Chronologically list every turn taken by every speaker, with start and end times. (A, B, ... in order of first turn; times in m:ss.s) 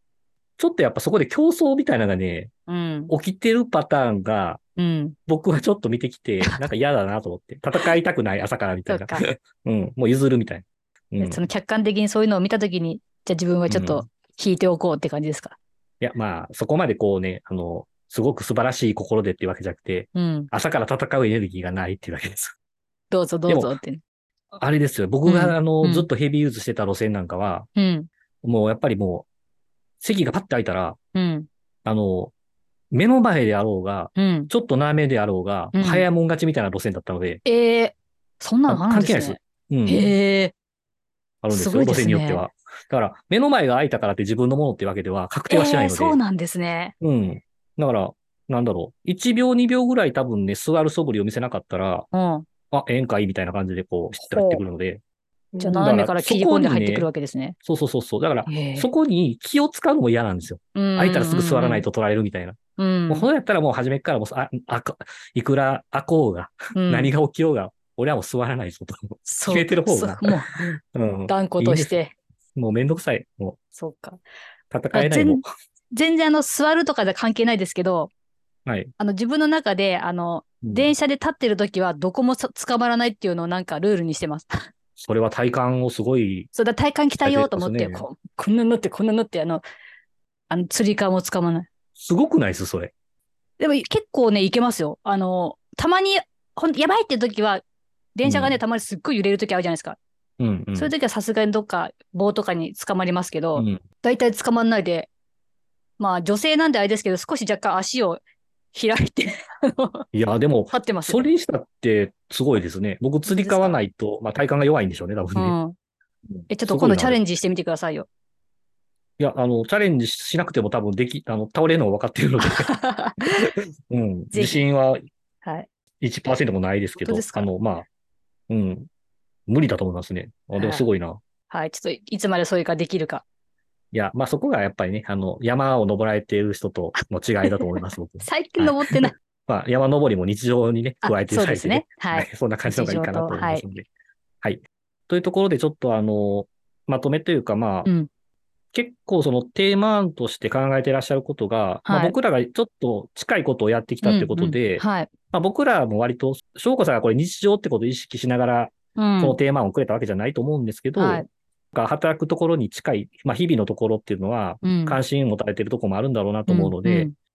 0:00.6-0:02.5 A
0:02.7-0:03.1 B
0:03.1-0:04.6 A
0:04.8-0:05.2 B
0:05.3-0:11.4 A
0:08.9-0:09.2 B
0:11.2-0:15.6 B
0:13.7-0:14.0 A
0:16.0-0:22.5 A
0:20.2-0:20.5 B
0:23.1-0:24.0 B
0:23.5-0:23.8 A
0:24.5-0:27.7 A
0:25.2-0:26.1 B
0:27.8-0:28.1 B
0:28.4-0:29.3 A
0:30.0-0:31.0 A
0:31.2-0:31.5 B
0:31.8-0:32.3 A
0:32.9-0:37.4 A
0:34.2-0:34.5 B
0:35.7-0:36.1 B
0:37.4-0:40.5 B
0:38.7-0:40.2 A
0:41.4-0:46.2 A
0:41.5-0:42.5 B
0:45.5-0:46.9 B
0:47.0-0:52.1 A
0:52.1-0:52.5 B
0:52.7-0:55.0 A
0:54.2-0:54.6 B
0:55.6-0:57.6 B
0:55.6-0:57.1 A
0:57.6-1:02.6 A
0:58.5-0:58.9 B
1:00.8-1:01.9 B
1:02.8-1:03.3 B
1:03.1-1:11.9 A
1:06.8-1:07.1 B
1:09.3-1:10.5 B
1:11.3-1:12.2 B
1:12.6-1:13.6 A
1:13.8-1:14.2 B
1:14.7-1:15.5 A
1:14.9-1:18.1 B
1:18.7-1:18.9 A
1:19.0-1:24.7 B
1:20.6-1:20.9 A
1:25.0-1:26.5 A
1:26.5-1:29.6 B
1:27.2-1:28.1 A
1:30.5-1:31.7 B
1:32.0-1:32.9 A
1:33.6-1:37.6 B
1:38.2-1:40.0 B
1:38.2-1:38.6 A
1:40.4-1:40.9 A
1:40.8-1:45.1 B
1:43.6-1:43.8 A
1:46.0-1:48.2 B
1:48.7-1:50.0 B
1:50.1-1:55.6 A
1:50.7-1:51.3 B
1:53.3-1:53.8 B
1:55.4-1:55.8 B
1:56.4-1:57.2 A
1:56.5-1:58.1 B
1:59.2-2:02.7 A
2:02.4-2:03.5 B
2:03.9-2:05.0 A
2:04.3-2:04.6 B
2:06.0-2:07.9 A
2:07.0-2:07.5 B
2:08.5-2:08.9 A
2:09.5-2:11.2 A
2:10.6-2:10.9 B
2:11.5-2:13.2 B
2:13.9-2:23.9 A
2:17.0-2:19.1 B
2:21.0-2:23.6 B
2:24.4-2:27.9 A
2:28.7-2:47.1 A
2:31.9-2:32.2 B
2:34.0-2:35.1 B
2:39.0-2:39.4 B
2:41.0-2:41.3 B
2:44.6-2:45.0 B
2:46.5-2:47.1 B